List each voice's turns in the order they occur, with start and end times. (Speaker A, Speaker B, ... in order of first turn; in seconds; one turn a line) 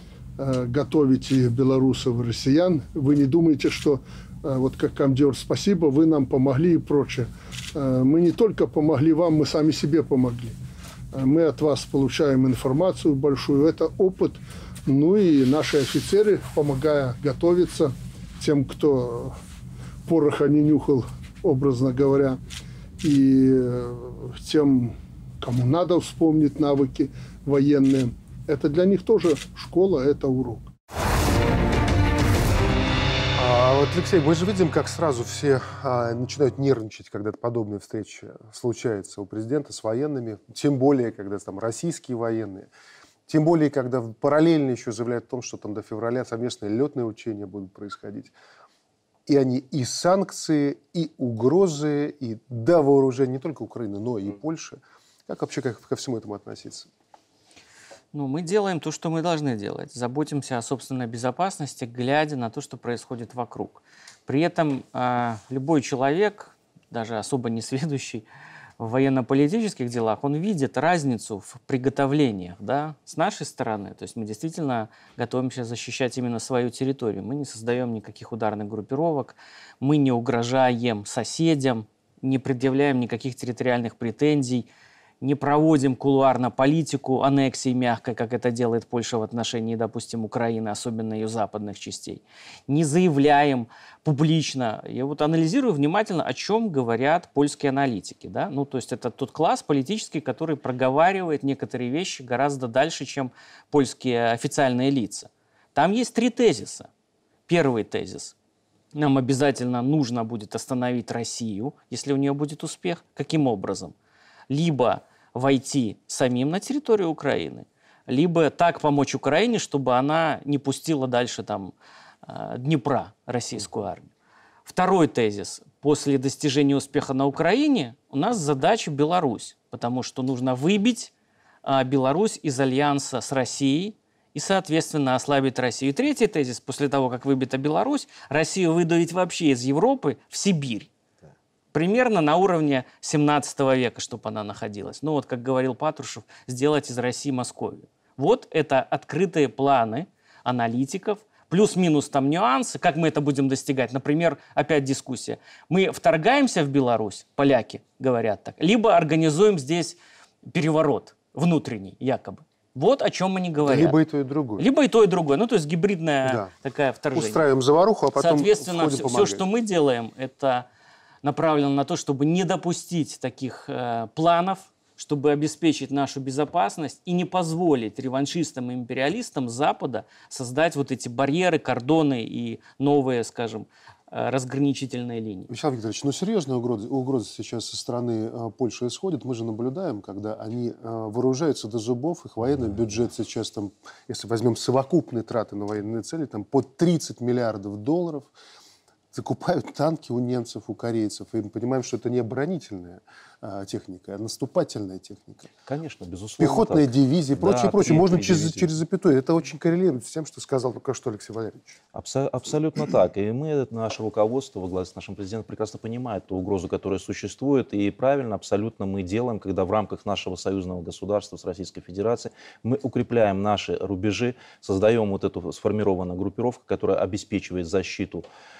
Speaker A: 0.4-10.6
Speaker A: 11.1-19.4
Speaker A: 20.1-22.4
Speaker A: 23.0-30.7
Speaker B: 33.3-42.7
Speaker B: 43.3-48.3
Speaker B: 49.3-56.9
Speaker C: 58.1-68.2
Speaker C: 68.8-84.7
Speaker C: 85.2-106.9
Speaker C: 107.5-108.3
Speaker C: 108.9-113.9
Speaker C: 114.5-121.7
Speaker C: 122.2-124.1
Speaker C: 124.7-131.1
Speaker C: 131.6-140.9
Speaker C: 141.7-160.0
Speaker C: 160.5-164.0
Speaker B: 163.6-164.7
Speaker C: 164.6-167.4
Speaker B: 166.2-166.5
Speaker B: 167.1-169.4
Speaker C: 168.1-170.7
Speaker C: 171.2-185.5
Speaker B: 185.5-198.3
Speaker B: 199.1-205.5
Speaker D: 205.7-208.7
Speaker B: 206.4-211.7
Speaker D: 211.9-228.2